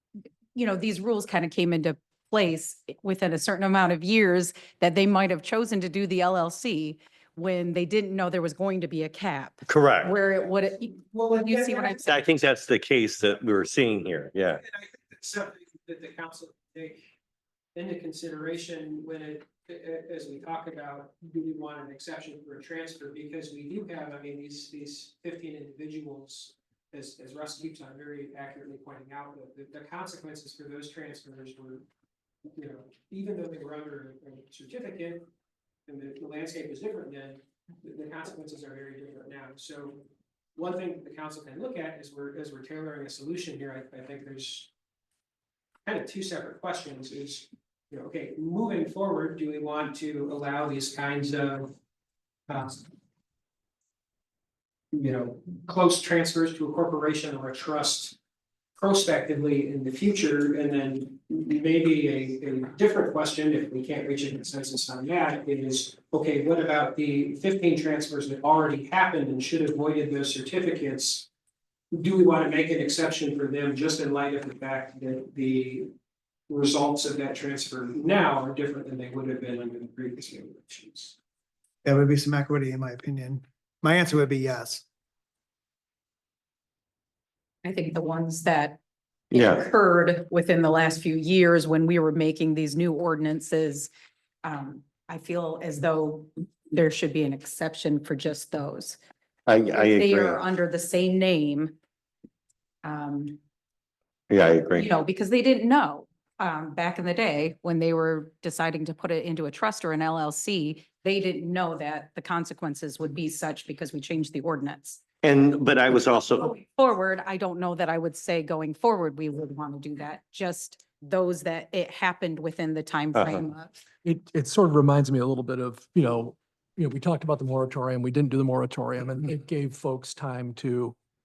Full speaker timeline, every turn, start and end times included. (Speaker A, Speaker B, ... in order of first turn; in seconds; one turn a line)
Speaker A: 0.6-12.0
Speaker B: 9.7-10.2
Speaker C: 11.1-12.2
Speaker B: 12.1-14.6
Speaker C: 14.6-17.0
Speaker C: 17.8-31.9
Speaker C: 32.6-35.2
Speaker C: 35.9-40.0
Speaker C: 40.6-44.7
Speaker C: 45.9-51.7
Speaker C: 52.5-52.9
Speaker C: 54.9-58.2
Speaker C: 58.8-71.3
Speaker C: 71.9-75.9
Speaker C: 76.5-81.1
Speaker D: 81.8-84.8
Speaker A: 87.6-88.8
Speaker B: 89.3-89.7
Speaker A: 89.3-93.9
Speaker A: 94.4-99.0
Speaker B: 99.5-100.5
Speaker A: 99.7-101.8
Speaker A: 102.8-103.4
Speaker B: 104.3-104.9
Speaker A: 104.7-115.0
Speaker B: 115.2-116.5
Speaker A: 116.4-123.8
Speaker B: 123.2-123.4
Speaker E: 124.0-130.9